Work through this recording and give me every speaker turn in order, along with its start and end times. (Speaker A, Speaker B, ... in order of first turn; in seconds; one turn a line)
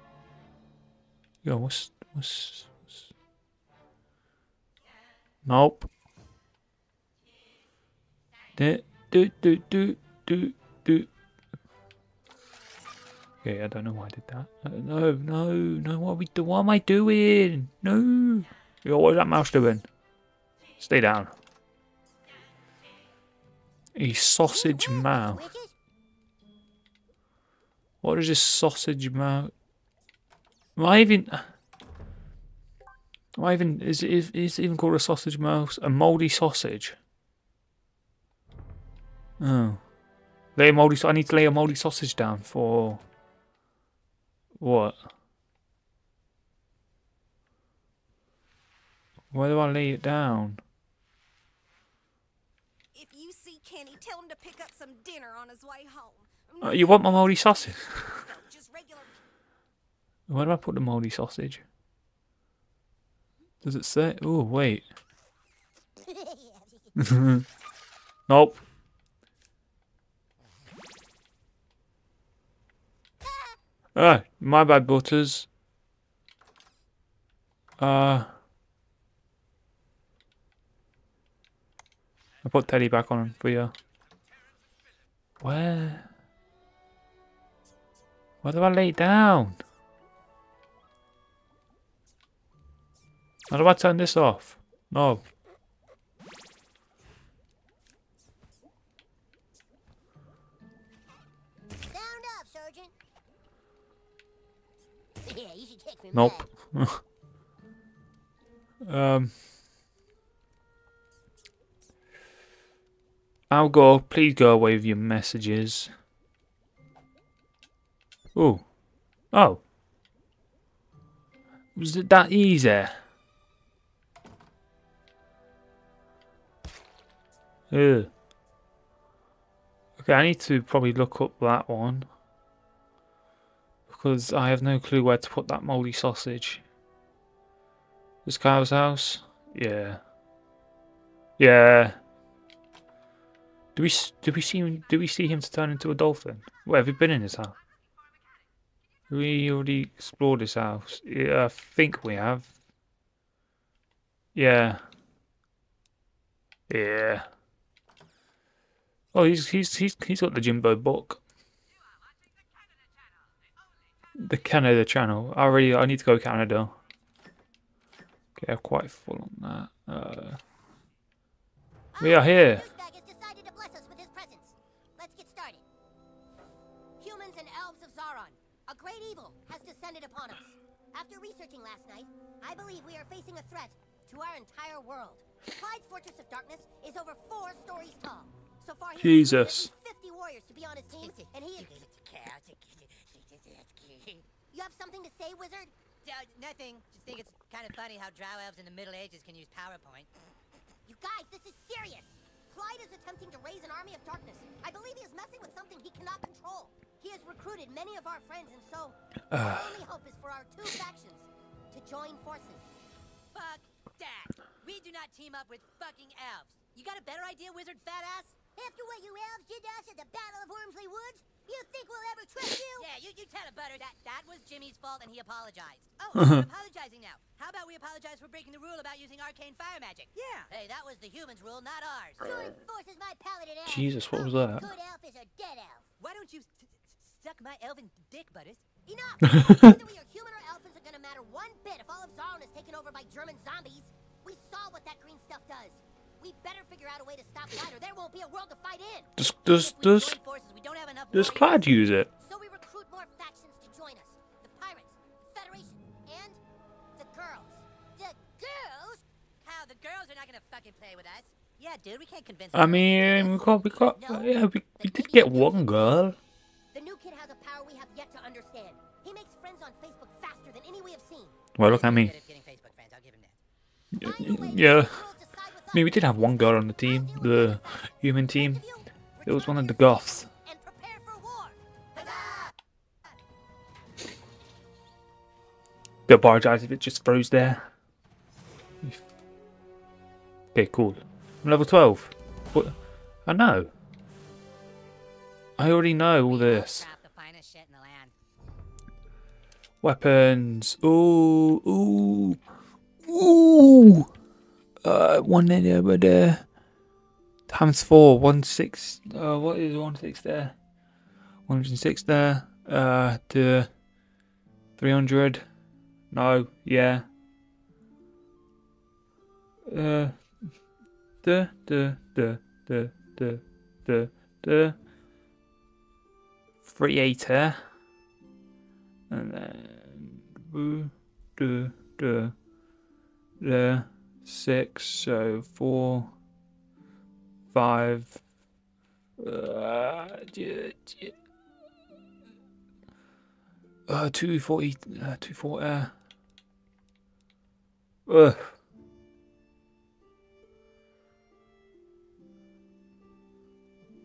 Speaker A: 1.4-2.9
Speaker A: 5.5-5.9
Speaker A: 8.6-11.1
Speaker A: 13.4-19.9
Speaker A: 20.8-21.3
Speaker A: 24.0-25.5
Speaker B: 24.4-25.8
Speaker A: 28.0-29.5
Speaker A: 30.8-31.5
Speaker A: 33.4-37.0
Speaker A: 39.4-39.8
Speaker A: 40.6-43.0
Speaker A: 44.6-45.0
Speaker A: 49.3-50.6
Speaker C: 52.9-59.2
Speaker A: 56.6-58.2
Speaker A: 60.3-61.6
Speaker A: 63.6-64.9
Speaker B: 66.0-67.0
Speaker A: 67.0-67.4
Speaker A: 68.3-68.6
Speaker A: 74.0-75.5
Speaker A: 77.8-78.3
Speaker A: 82.4-83.7
Speaker A: 85.4-86.1
Speaker A: 88.4-89.6
Speaker A: 93.5-95.2
Speaker B: 101.8-102.9
Speaker B: 105.2-106.5
Speaker A: 106.1-107.0
Speaker A: 108.9-109.3
Speaker A: 113.5-115.9
Speaker A: 118.3-118.7
Speaker A: 119.3-119.6
Speaker A: 121.8-123.0
Speaker A: 127.7-128.1
Speaker A: 130.0-132.1
Speaker A: 133.9-136.6
Speaker A: 138.2-140.0
Speaker A: 141.4-142.0
Speaker A: 143.8-147.6
Speaker A: 149.1-152.5
Speaker A: 154.3-154.8
Speaker A: 156.7-157.3
Speaker A: 159.1-161.2
Speaker A: 164.2-166.8
Speaker A: 168.4-170.4
Speaker B: 171.9-175.7
Speaker A: 172.0-172.7
Speaker B: 177.0-191.9
Speaker A: 189.0-189.7
Speaker D: 190.9-194.3
Speaker B: 194.5-195.7
Speaker D: 196.0-200.1
Speaker B: 200.9-212.7
Speaker A: 209.3-209.8
Speaker D: 213.3-218.4
Speaker B: 218.6-222.9
Speaker D: 222.8-232.3
Speaker A: 226.2-226.4
Speaker C: 230.2-230.5
Speaker B: 232.2-235.9
Speaker A: 233.7-234.7
Speaker D: 236.0-238.7
Speaker B: 238.9-249.1
Speaker A: 239.3-239.7
Speaker A: 249.2-250.2
Speaker D: 249.5-251.8
Speaker A: 251.1-252.1
Speaker B: 252.2-256.4
Speaker B: 256.9-259.1
Speaker D: 259.4-263.4
Speaker A: 262.5-266.2
Speaker B: 263.9-265.7
Speaker B: 266.7-271.4
Speaker A: 271.6-272.1
Speaker D: 271.6-273.4
Speaker A: 273.9-275.0
Speaker B: 274.0-282.5
Speaker A: 275.7-278.6
Speaker A: 279.2-280.3
Speaker A: 286.1-287.7
Speaker A: 290.5-292.8
Speaker A: 293.3-293.7
Speaker A: 295.6-296.9
Speaker D: 296.3-298.1
Speaker A: 299.8-302.4
Speaker A: 303.1-304.1
Speaker A: 304.8-306.4
Speaker A: 307.5-310.6
Speaker A: 311.5-313.7
Speaker A: 314.8-315.4
Speaker A: 316.1-317.1
Speaker A: 319.7-320.2
Speaker A: 321.2-324.8
Speaker A: 326.6-327.6
Speaker A: 329.1-332.4
Speaker A: 333.4-336.1
Speaker A: 337.5-338.2
Speaker A: 339.2-341.1
Speaker A: 343.9-345.9
Speaker A: 348.1-348.5